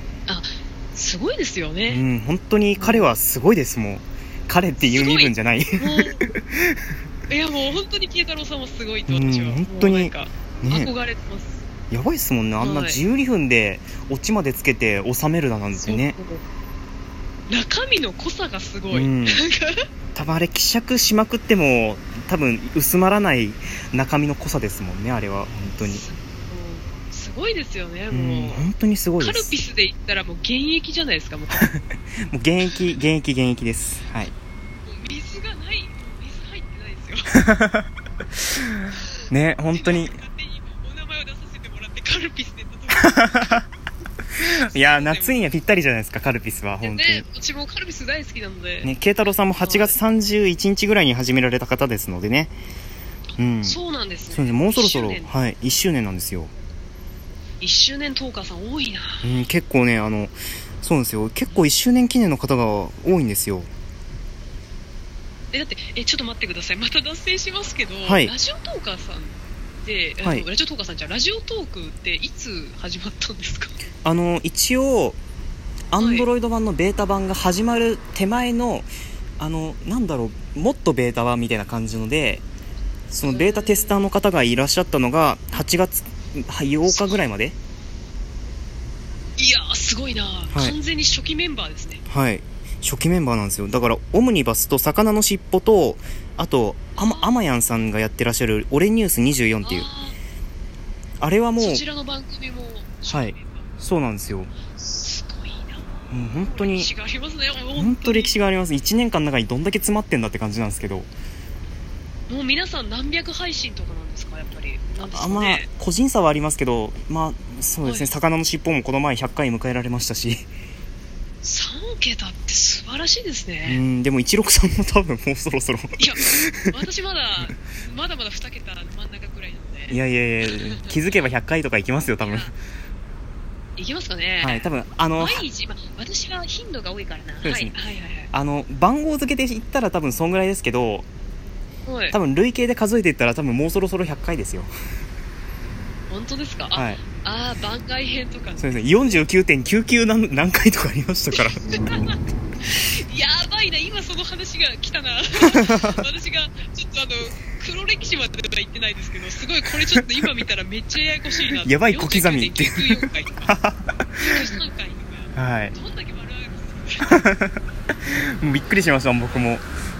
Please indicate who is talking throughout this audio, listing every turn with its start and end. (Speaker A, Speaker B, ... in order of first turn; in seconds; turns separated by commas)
Speaker A: 0.3-2.0, Speaker B: 1.9-6.8, Speaker A: 2.8-3.1, Speaker A: 4.8-6.2, Speaker A: 7.3-11.6, Speaker B: 9.1-10.9, Speaker B: 11.9-16.1, Speaker A: 12.6-13.0, Speaker A: 15.8-16.4, Speaker A: 17.5-19.8, Speaker B: 18.9-19.4, Speaker B: 20.1-26.0, Speaker A: 25.8-28.7, Speaker B: 28.1-29.5, Speaker A: 29.2-31.6, Speaker B: 31.5-34.3, Speaker A: 34.8-37.4, Speaker B: 37.3-37.9, Speaker B: 38.5-40.2, Speaker A: 39.7-43.6, Speaker B: 43.0-43.6, Speaker B: 44.4-47.2, Speaker A: 44.7-45.5, Speaker A: 46.8-48.9, Speaker B: 48.8-52.5, Speaker A: 49.6-50.0, Speaker B: 53.4-53.8, Speaker A: 53.6-55.3, Speaker B: 54.3-56.5, Speaker A: 57.6-59.2, Speaker B: 59.2-63.7, Speaker A: 65.5-73.7, Speaker B: 68.0-68.3, Speaker B: 74.0-75.2, Speaker B: 75.9-82.4, Speaker A: 76.0-76.3, Speaker B: 83.1-87.5, Speaker A: 83.2-84.0, Speaker A: 86.8-87.2, Speaker A: 89.4-92.0, Speaker B: 92.1-99.9, Speaker A: 97.0-97.4, Speaker A: 99.6-100.2, Speaker B: 101.2-101.8, Speaker A: 101.6-103.7, Speaker B: 103.1-104.5, Speaker A: 104.6-105.8, Speaker B: 106.1-106.9, Speaker A: 106.4-108.3, Speaker B: 107.8-111.1, Speaker A: 112.3-115.7, Speaker B: 115.1-120.5, Speaker A: 117.8-118.1, Speaker A: 121.4-123.8, Speaker B: 123.7-126.7, Speaker A: 126.0-130.9, Speaker B: 129.9-132.5, Speaker A: 132.2-132.5, Speaker A: 133.8-138.3, Speaker B: 134.4-135.4, Speaker B: 137.4-137.7, Speaker B: 138.3-141.1, Speaker A: 141.8-142.2, Speaker B: 142.1-144.7, Speaker A: 146.1-149.2, Speaker B: 146.7-147.0, Speaker B: 148.6-151.7, Speaker A: 151.6-163.6, Speaker B: 155.4-156.0, Speaker B: 161.6-164.4, Speaker A: 164.2-167.2, Speaker B: 165.3-165.7, Speaker B: 167.0-169.7, Speaker A: 169.2-169.6